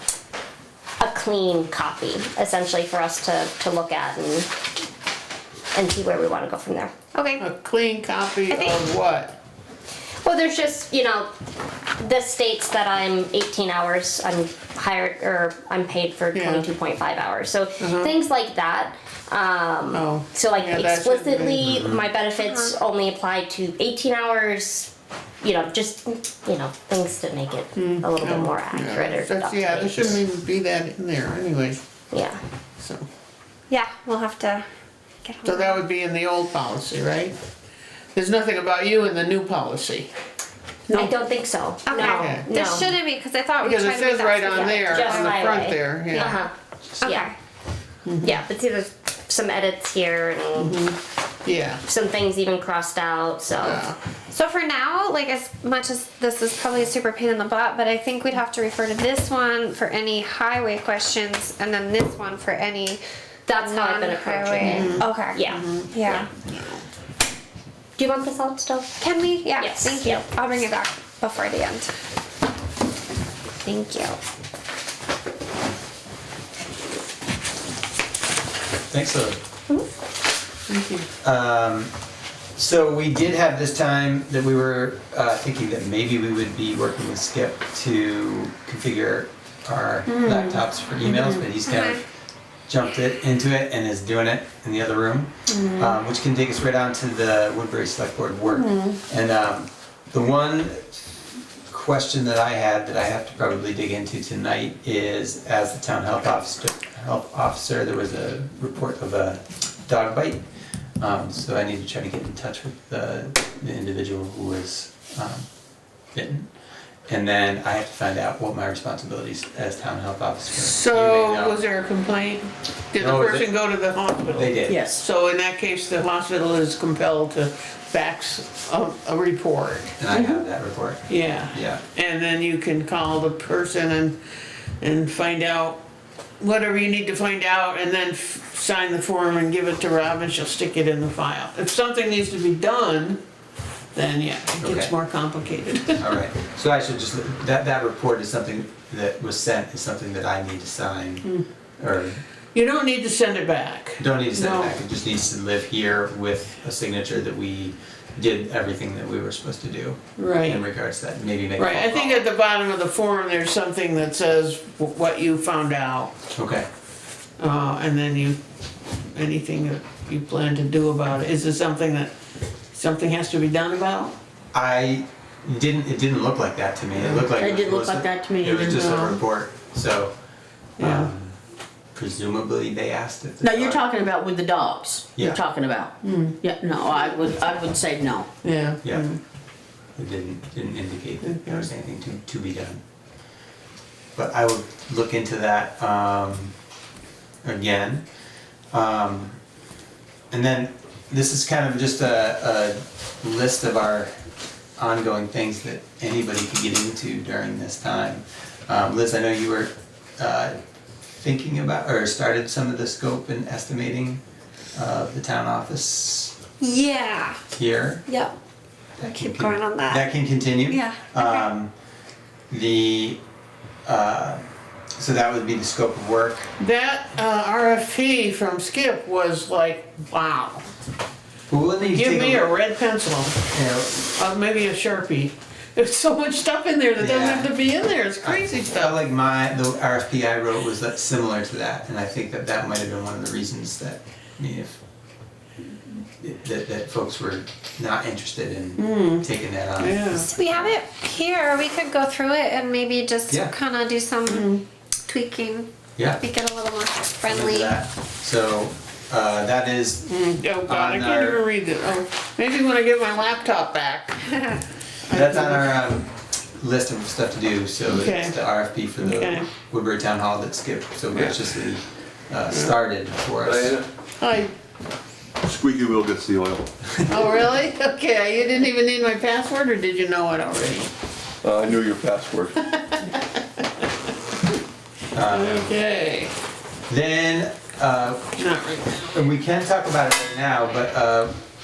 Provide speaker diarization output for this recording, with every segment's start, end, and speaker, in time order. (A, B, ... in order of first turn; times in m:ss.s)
0:01.0-0:04.5 A
0:05.7-0:06.9 A
0:07.1-0:07.4 B
0:07.4-0:09.4 C
0:08.5-0:08.7 B
0:10.2-0:11.3 A
0:12.0-0:24.9 A
0:16.3-0:16.7 C
0:17.8-0:18.1 C
0:19.9-0:21.7 C
0:21.6-0:22.0 D
0:22.4-0:22.7 B
0:25.4-0:30.2 A
0:27.7-0:31.8 C
0:32.1-0:32.4 A
0:32.8-0:33.0 C
0:33.7-0:34.6 B
0:35.2-0:35.8 B
0:35.4-0:37.3 C
0:38.1-0:40.1 C
0:40.9-0:43.0 A
0:41.8-0:45.4 B
0:42.0-0:42.5 C
0:43.6-0:46.4 C
0:44.6-0:47.3 A
0:46.1-0:46.4 B
0:47.0-0:47.3 B
0:48.0-0:48.4 C
0:48.2-0:50.8 A
0:50.6-0:51.8 C
0:51.8-0:53.8 A
0:53.6-0:54.0 C
0:54.3-1:03.0 B
1:03.5-1:06.3 A
1:03.5-1:06.3 B
1:04.6-1:05.9 C
1:06.4-1:06.8 C
1:08.0-1:09.0 A
1:09.0-1:11.9 B
1:09.6-1:10.4 A
1:13.6-1:14.2 B
1:18.9-1:19.4 D
1:20.7-1:21.1 C
1:21.2-1:21.9 D
1:22.6-1:32.0 D
1:30.0-1:31.4 C
1:32.7-1:40.8 D
1:35.5-1:36.0 C
1:38.5-1:39.0 C
1:41.7-1:50.4 D
1:51.0-1:55.5 D
1:56.1-1:56.5 D
1:57.1-2:01.6 D
2:00.6-2:10.0 C
2:03.0-2:03.5 D
2:04.3-2:04.9 D
2:04.6-2:05.0 E
2:10.0-2:11.8 D
2:10.1-2:10.4 E
2:11.1-2:14.2 C
2:14.8-2:15.8 C
2:16.4-2:23.2 C
2:23.9-2:26.0 C
2:24.6-2:24.9 D
2:26.0-2:32.2 D
2:32.5-2:34.8 C
2:34.0-2:42.3 D
2:40.2-2:40.6 C
2:41.6-2:46.1 C
2:46.3-2:46.7 D
2:47.4-2:48.4 C
2:49.1-2:52.1 C
2:52.7-2:54.1 C
2:54.5-3:00.1 D
2:57.0-2:57.3 C
2:57.4-2:58.8 E
2:58.8-2:59.2 C
3:00.8-3:01.4 D
3:00.8-3:01.1 C
3:01.9-3:03.8 D
3:03.4-3:08.3 E
3:05.2-3:05.4 D
3:06.0-3:06.4 C
3:08.4-3:09.2 C
3:10.0-3:12.8 D
3:11.2-3:11.7 C
3:14.1-3:16.5 D
3:17.4-3:18.0 D
3:18.7-3:19.4 D
3:20.3-3:24.1 D
3:24.8-3:30.6 D
3:31.1-3:34.2 D
3:34.7-3:36.3 D
3:36.6-3:37.4 B
3:37.5-3:38.0 D
3:38.1-3:38.3 B
3:39.0-3:41.7 D
3:39.2-3:40.0 B
3:40.7-3:41.5 B
3:42.5-3:43.2 D
3:43.8-3:44.4 D
3:45.0-3:46.5 D
3:46.6-3:50.6 C
3:51.5-3:52.5 D
3:51.8-3:53.4 C
3:53.5-3:54.0 D
3:54.1-3:58.9 C
3:57.0-3:57.5 D
3:58.2-4:04.8 D
4:06.2-4:10.7 D
4:08.8-4:09.2 C
4:09.8-4:10.3 C
4:10.2-4:17.8 B
4:13.3-4:13.5 D
4:14.2-4:14.6 C
4:16.0-4:16.2 D
4:17.2-4:20.1 D
4:20.1-4:24.3 C
4:20.6-4:21.4 D
4:25.1-4:25.7 C
4:25.1-4:33.8 D
4:27.9-4:28.4 C
4:29.0-4:29.4 C
4:33.4-4:33.8 F
4:34.2-4:34.5 C
4:35.4-4:36.7 F
4:37.1-4:40.9 C
4:41.4-4:42.6 F
4:42.7-4:43.2 C
4:45.1-4:45.7 D
4:45.3-4:46.3 C
4:46.9-4:48.3 D
4:48.4-4:49.0 C
4:49.0-4:51.3 D